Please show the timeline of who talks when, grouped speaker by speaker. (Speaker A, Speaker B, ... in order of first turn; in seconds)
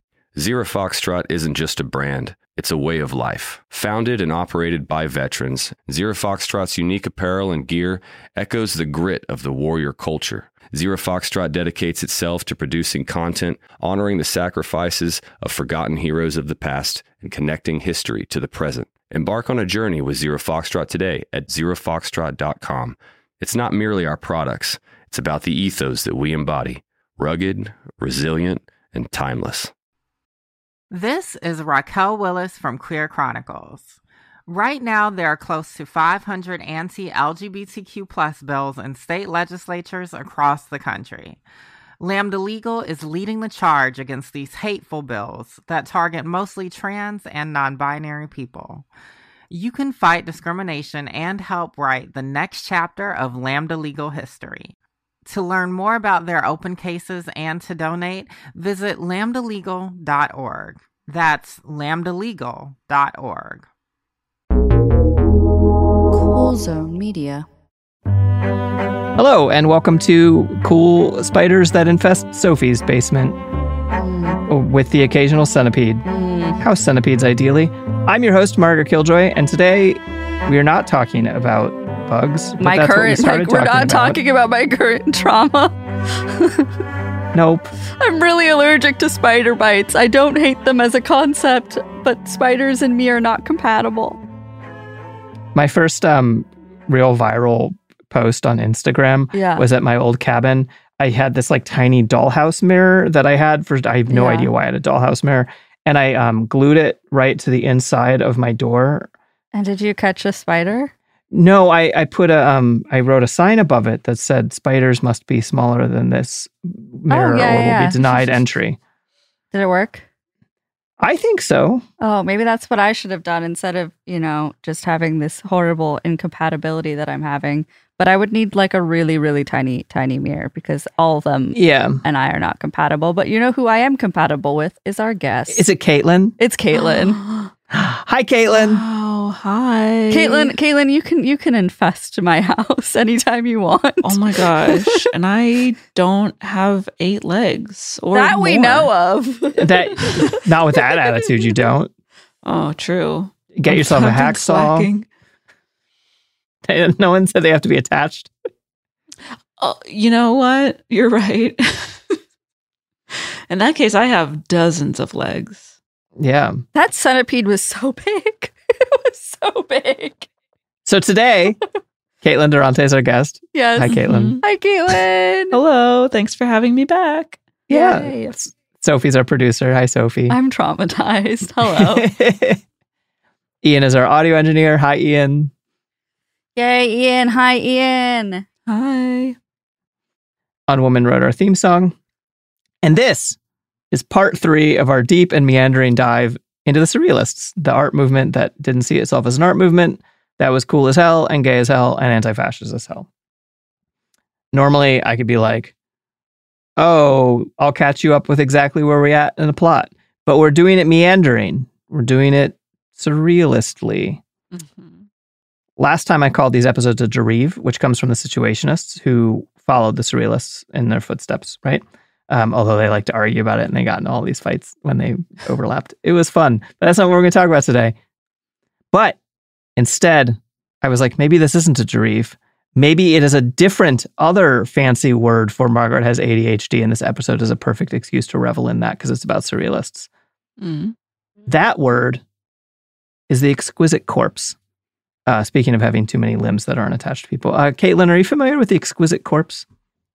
Speaker A: 0.3-29.7
Speaker B: 30.9-34.0, 34.5-41.4, 42.0-48.9, 49.5-54.8, 55.3-63.7
Speaker C: 66.1-67.5, 73.9-74.4, 76.1-76.6, 82.6-85.8, 86.3-86.7, 88.0-94.2, 99.3-99.7, 104.1-104.5, 109.5-110.9, 117.1-118.3, 119.5-120.0, 122.0-135.7, 136.4-137.2, 140.1-144.9, 148.1-150.3, 166.7-170.3, 173.5-175.6, 177.7-178.4, 180.3-182.1, 186.6-188.4
Speaker D: 69.2-73.4, 74.5-76.0, 76.6-84.2, 87.3-87.7, 95.5-109.1, 111.3-118.8, 121.0-121.8, 131.5-132.0, 135.5-136.4, 137.7-138.8, 149.6-151.9, 153.6-154.9, 156.7-158.3, 166.2-166.6, 170.8-171.6, 172.2-174.4, 177.7-180.4, 181.7-182.6, 183.6-185.5, 190.7-191.9, 192.8-193.4, 193.9-203.1, 204.5-205.7, 206.8-214.2, 215.8-227.9, 228.9-229.2, 229.8-240.1, 241.5-242.2, 243.3-244.6, 245.3-249.7
Speaker E: 136.7-137.5, 138.5-140.5, 144.0-148.9, 152.4-155.1, 159.6-162.2, 163.1-165.7, 173.9-174.4, 175.5-177.4, 188.7-189.4, 214.5-215.0, 240.6-240.9